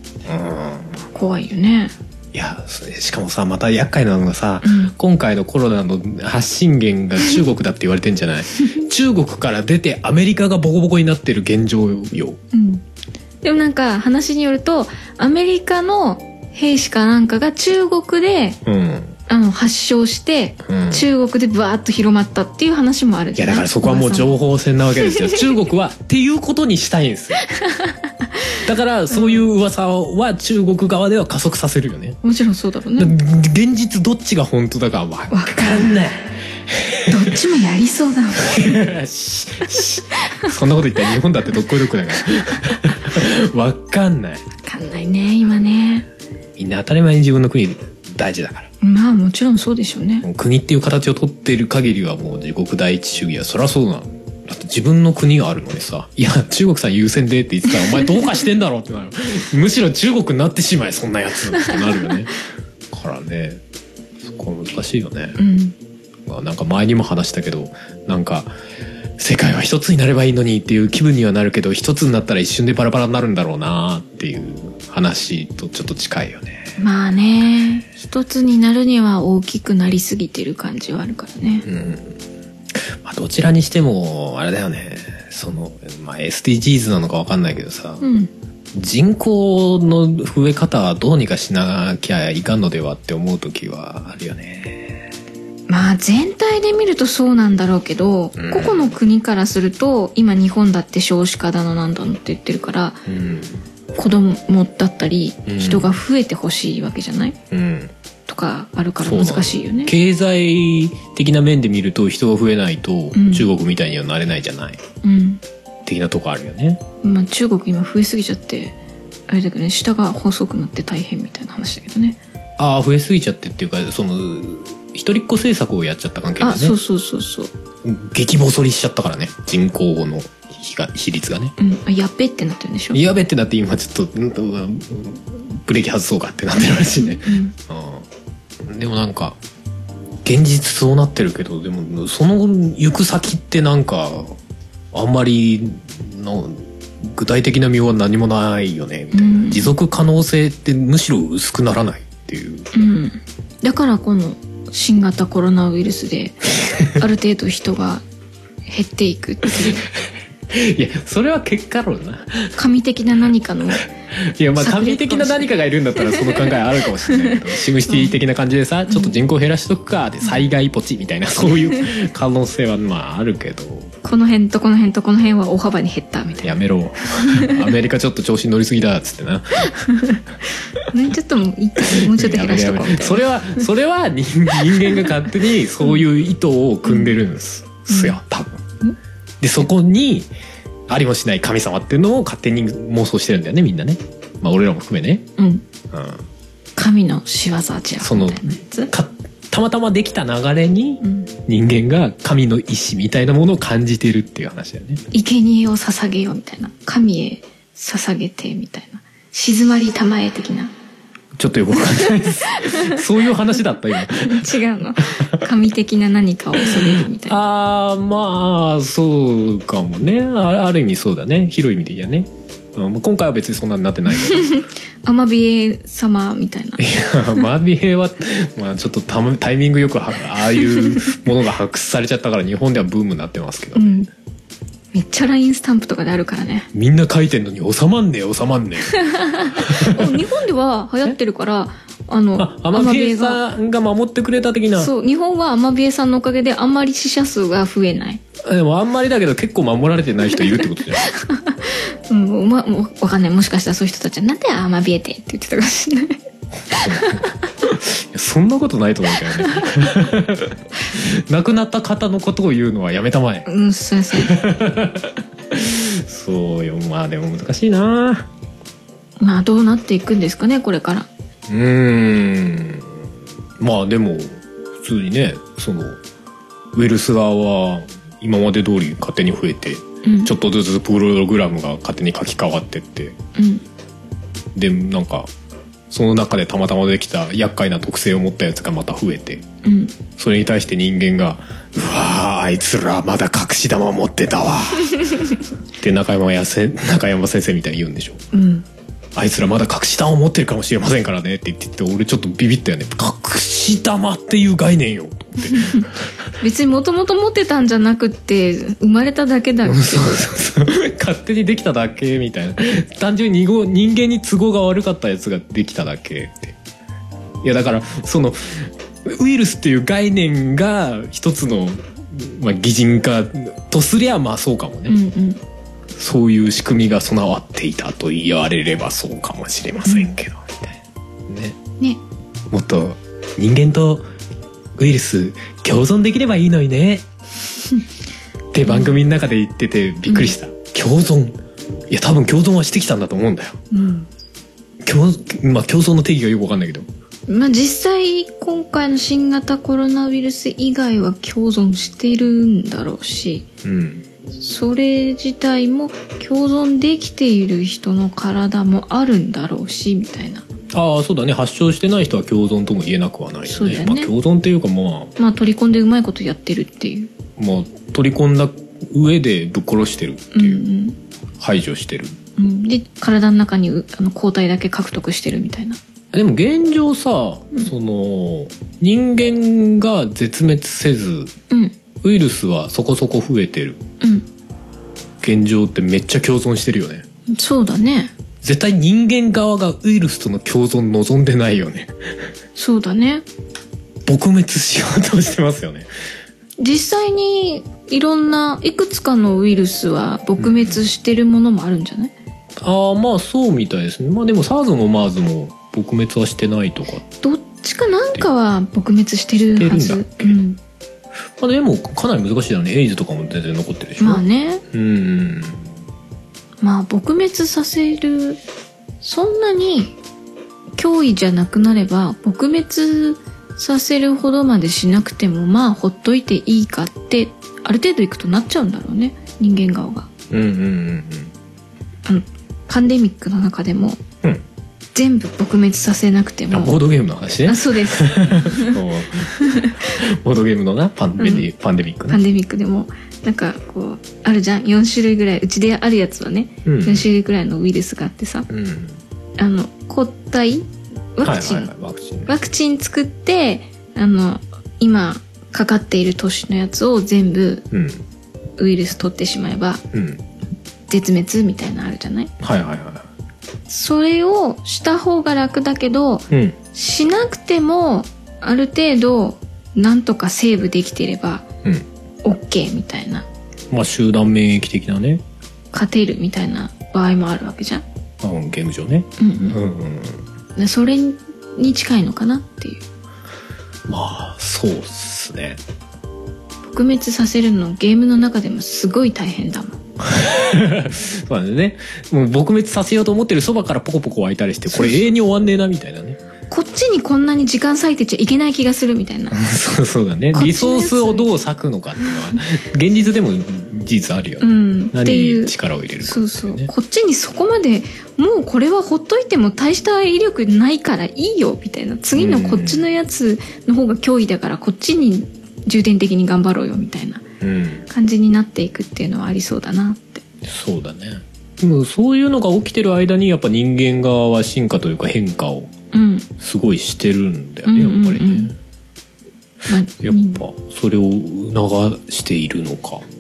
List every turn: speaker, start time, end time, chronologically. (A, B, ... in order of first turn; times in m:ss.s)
0:00.3-0:01.0 A
0:01.1-0:01.9 B
0:02.3-0:12.4 A
0:04.6-0:04.9 B
0:12.5-0:12.8 B
0:13.4-0:18.6 B
0:18.6-0:19.2 A
0:19.3-0:24.4 B
0:20.6-0:21.1 A
0:23.4-0:27.5 A
0:25.0-0:25.6 B
0:27.6-0:28.4 B
0:28.6-0:32.2 A
0:29.1-0:29.4 B
0:32.2-0:33.1 B
0:33.0-0:37.4 A
0:35.3-0:36.0 B
0:37.1-0:38.8 B
0:38.4-0:44.4 A
0:42.3-0:42.6 B
0:44.6-0:46.1 B
0:46.6-0:48.7 A
0:48.8-0:50.3 B
0:50.2-1:02.4 A
1:02.9-1:03.6 A
1:04.2-1:05.4 A
1:05.4-1:05.8 B
1:06.3-1:08.5 A
1:09.2-1:16.8 A
1:16.8-1:21.7 B
1:21.6-1:22.2 A
1:22.8-1:28.1 A
1:28.0-1:28.3 B
1:28.8-1:35.0 A
1:35.7-1:43.0 B
1:38.4-1:39.0 A
1:43.1-1:43.6 A
1:44.0-1:47.4 B
1:45.5-1:45.9 A
1:47.5-1:47.9 A
1:48.3-1:49.9 B
1:49.0-1:54.8 A
1:53.1-1:53.5 B
1:55.0-1:55.4 B
1:55.9-1:56.8 A
1:57.0-1:58.8 B
1:59.3-2:02.2 B
2:02.6-2:06.8 A
2:06.4-2:07.5 B
2:07.8-2:11.6 A
2:11.6-2:13.0 B
2:12.9-2:18.1 A
2:17.0-2:17.6 B
2:18.6-2:19.4 A
2:20.2-2:24.4 A
2:24.9-2:32.7 A
2:29.1-2:29.7 B
2:32.7-2:38.0 B
2:36.7-2:37.0 A
2:38.7-2:39.8 B
2:39.5-2:39.8 A
2:40.5-2:42.5 A
2:42.6-2:43.8 B
2:44.2-2:53.9 A
2:44.6-2:48.1 B
2:48.9-2:49.1 B
2:54.0-2:56.6 B
2:56.4-2:59.8 A
2:57.2-2:57.7 B
2:59.7-3:00.2 B
3:00.8-3:03.6 B
3:01.8-3:08.6 A
3:04.7-3:05.2 B
3:07.9-3:08.2 B
3:09.4-3:10.3 A
3:10.9-3:15.3 A
3:15.4-3:15.6 B
3:15.9-3:16.2 A
3:16.8-3:18.9 B
3:18.0-3:25.0 A
3:21.0-3:21.3 B
3:25.1-3:30.7 B
3:31.4-3:35.5 A
3:31.8-3:33.1 B
3:34.0-3:37.4 B
3:36.6-3:44.6 A
3:44.2-3:46.8 B
3:46.8-3:54.0 A
3:53.8-3:54.1 B
3:54.9-3:56.7 B
3:56.7-4:00.2 A
3:59.0-4:03.4 B
4:02.4-4:04.9 A
4:04.8-4:08.2 B
4:08.4-4:11.2 A
4:10.4-4:16.2 B
4:16.7-4:23.5 A
4:16.7-4:17.3 B
4:19.3-4:19.9 B
4:23.5-4:24.4 B
4:24.1-4:28.3 A
4:29.2-4:31.1 B
4:31.5-4:33.0 A
4:33.6-4:36.0 A
4:36.7-4:43.2 A
4:40.0-4:40.3 B
4:43.4-4:43.6 B
4:44.6-4:45.3 A
4:45.9-4:49.5 A
4:49.6-4:50.0 B
4:50.2-4:58.2 A
4:58.3-4:58.7 B
4:59.2-5:06.0 A
5:05.5-5:10.3 B
5:09.6-5:16.6 A
5:17.4-5:25.0 A
5:24.9-5:25.4 B
5:26.0-5:31.6 A
5:29.8-5:30.1 B
5:32.5-5:34.1 A
5:34.8-5:37.1 A
5:38.5-5:43.6 A
5:38.7-5:39.0 B
5:40.1-5:40.4 B
5:43.7-5:44.1 B
5:44.8-5:46.9 A
5:47.3-5:53.5 B
5:53.6-5:54.0 A
5:54.4-6:00.5 B
6:00.7-6:05.1 A
6:03.5-6:04.1 B
6:05.2-6:07.1 B
6:07.4-6:10.6 A
6:10.3-6:11.0 B
6:11.4-6:12.2 A
6:12.4-6:15.8 B
6:16.1-6:21.3 A
6:21.5-6:21.8 B
6:22.0-6:23.8 A
6:24.0-6:24.3 B
6:25.2-6:27.1 A
6:27.3-6:28.1 B
6:28.4-6:31.9 A
6:32.6-6:33.2 B
6:34.1-6:35.9 A
6:36.6-6:42.1 B
6:40.4-6:40.8 A
6:42.6-6:47.0 A
6:47.2-6:50.6 B
6:49.6-6:50.4 A
6:51.4-6:55.7 A
6:54.0-6:54.6 B
6:56.6-6:58.4 B
6:59.0-6:59.9 B
7:00.8-7:10.1 B
7:10.3-7:11.3 A
7:12.0-7:14.0 B
7:15.0-7:16.8 B
7:16.5-7:22.2 A
7:17.4-7:18.8 B
7:19.4-7:19.9 B
7:21.2-7:21.5 B
7:22.1-7:28.5 B
7:26.6-7:27.1 A
7:28.5-7:29.0 A
7:29.4-7:31.7 B
7:31.2-7:32.4 A
7:32.3-7:37.7 B
7:37.7-7:38.0 A
7:38.6-7:39.8 B
7:39.9-7:40.2 A
7:40.9-7:42.3 B
7:42.4-7:43.1 A
7:43.7-7:51.5 B
7:46.3-7:46.6 A
7:52.2-7:53.3 B
7:53.7-7:55.2 A
7:55.7-7:57.8 B
7:58.2-8:00.2 A
7:59.2-7:59.6 B
8:00.6-8:02.8 B
8:03.9-8:05.6 A
8:06.7-8:09.8 B
8:10.0-8:16.2 A
8:14.7-8:15.2 B
8:16.5-8:19.4 B
8:19.3-8:26.7 A
8:20.3-8:21.3 B
8:24.4-8:37.2 B
8:32.2-8:32.9 A
8:37.4-8:37.9 A
8:37.9-8:40.2 B
8:40.4-8:45.7 A
8:45.9-8:46.3 B
8:46.4-8:48.6 A
8:47.7-8:48.5 B
8:49.7-8:50.4 B
8:50.0-8:53.1 A